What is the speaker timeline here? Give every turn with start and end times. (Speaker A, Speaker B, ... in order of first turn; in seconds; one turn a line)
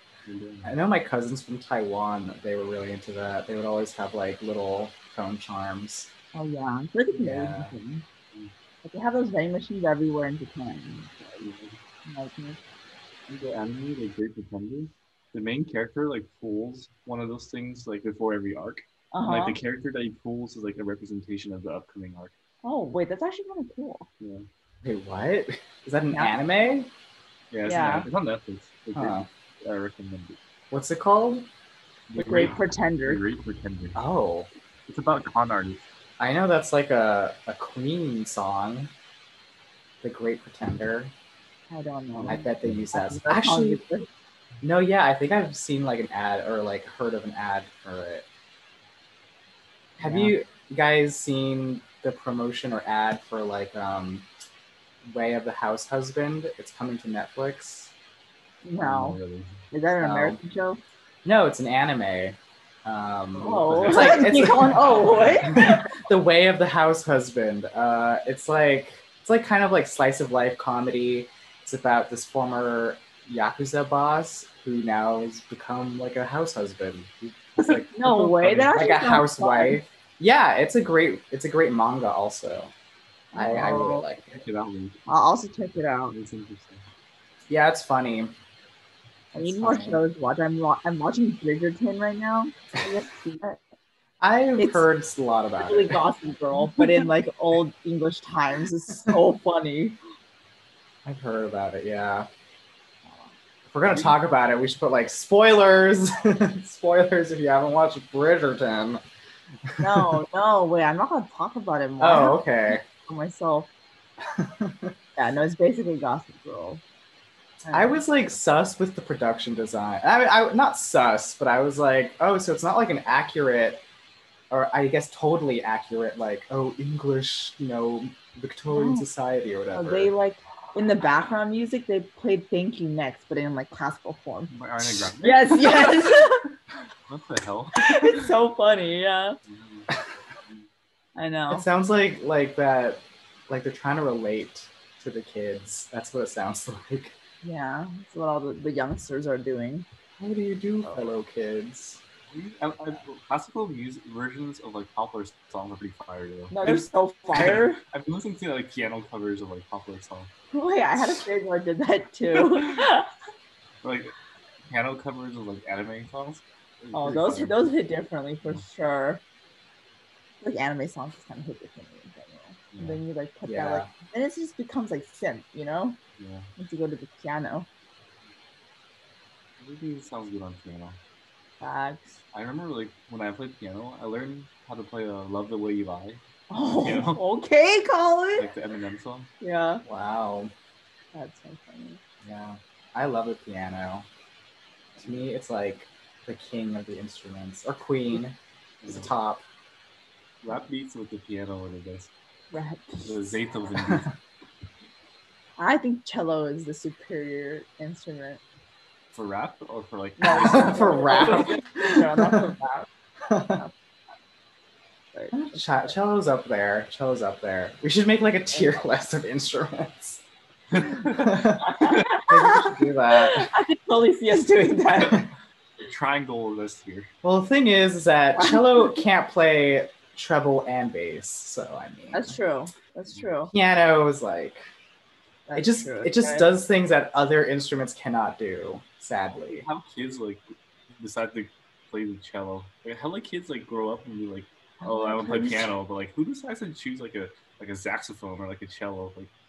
Speaker A: 0.2-0.7
Speaker B: 0.6-6.1
Speaker C: 6.3-8.0
Speaker B: 7.2-7.7
Speaker C: 8.8-11.4
Speaker A: 11.4-11.8
Speaker C: 12.1-12.6
Speaker A: 13.3-22.3
Speaker C: 19.1-19.6
Speaker C: 22.6-24.1
Speaker A: 24.2-24.5
Speaker B: 24.8-26.9
Speaker A: 27.5-30.4
Speaker C: 27.6-28.1
Speaker B: 28.9-29.3
Speaker B: 30.7-31.5
Speaker A: 32.1-34.0
Speaker C: 32.1-33.2
Speaker B: 33.9-34.5
Speaker A: 34.9-35.8
Speaker B: 36.2-38.9
Speaker B: 40.0-41.1
Speaker C: 41.7-44.1
Speaker B: 42.3-43.8
Speaker B: 44.6-48.3
Speaker B: 50.0-54.2
Speaker B: 55.0-57.9
Speaker C: 58.6-59.2
Speaker A: 58.8-59.6
Speaker C: 59.7-60.8
Speaker B: 60.0-60.4
Speaker B: 61.2-82.7
Speaker A: 63.3-65.7
Speaker C: 63.4-65.8
Speaker C: 77.9-79.8
Speaker A: 78.4-78.7
Speaker C: 83.3-84.0
Speaker B: 83.3-84.4
Speaker A: 83.5-85.0
Speaker C: 85.1-86.2
Speaker A: 86.1-86.8
Speaker B: 87.5-88.3
Speaker B: 89.3-90.0
Speaker C: 89.3-93.6
Speaker B: 94.2-96.0
Speaker C: 94.6-94.8
Speaker C: 95.6-100.0
Speaker B: 96.8-97.0
Speaker B: 101.0-102.3
Speaker B: 103.7-109.0
Speaker A: 103.9-104.2
Speaker B: 109.7-110.2
Speaker C: 109.8-113.7
Speaker B: 112.0-112.8
Speaker B: 114.3-114.9
Speaker C: 115.2-116.8
Speaker C: 117.6-118.0
Speaker B: 117.7-123.8
Speaker B: 124.5-130.1
Speaker C: 128.7-129.1
Speaker C: 129.7-134.5
Speaker A: 134.5-136.3
Speaker C: 135.2-136.5
Speaker A: 137.1-138.2
Speaker C: 137.8-139.4
Speaker A: 139.5-139.9
Speaker C: 141.2-141.7
Speaker B: 141.5-147.1
Speaker C: 147.4-149.9
Speaker B: 150.2-152.0
Speaker A: 152.3-160.3
Speaker C: 156.5-157.8
Speaker C: 160.5-163.1
Speaker A: 162.3-162.8
Speaker A: 163.8-164.1
Speaker A: 164.7-167.7
Speaker C: 166.9-169.2
Speaker C: 170.4-176.0
Speaker A: 172.7-173.0
Speaker B: 173.4-173.9
Speaker A: 176.2-176.5
Speaker C: 176.6-177.7
Speaker A: 179.6-181.0
Speaker C: 181.6-182.2
Speaker A: 182.3-186.2
Speaker C: 186.5-188.5
Speaker A: 186.8-187.2
Speaker A: 188.3-189.3
Speaker C: 189.4-189.8
Speaker B: 189.8-190.5
Speaker C: 191.1-192.0
Speaker B: 192.2-194.1
Speaker B: 194.9-199.4
Speaker A: 198.8-199.1
Speaker A: 200.4-202.1
Speaker C: 202.5-203.1
Speaker A: 203.0-204.1
Speaker C: 205.6-208.4
Speaker A: 209.1-211.5
Speaker C: 210.2-212.9
Speaker B: 210.4-212.5
Speaker B: 213.3-213.6
Speaker C: 215.1-215.9
Speaker B: 215.3-220.2
Speaker A: 220.7-221.4
Speaker B: 220.8-223.5
Speaker C: 221.6-225.3
Speaker A: 225.8-227.1
Speaker B: 227.2-232.3
Speaker C: 228.4-229.0
Speaker C: 232.1-233.5
Speaker B: 233.5-234.6
Speaker C: 235.5-236.4
Speaker B: 235.5-239.6
Speaker A: 239.4-240.4
Speaker A: 240.9-249.3
Speaker C: 244.8-245.7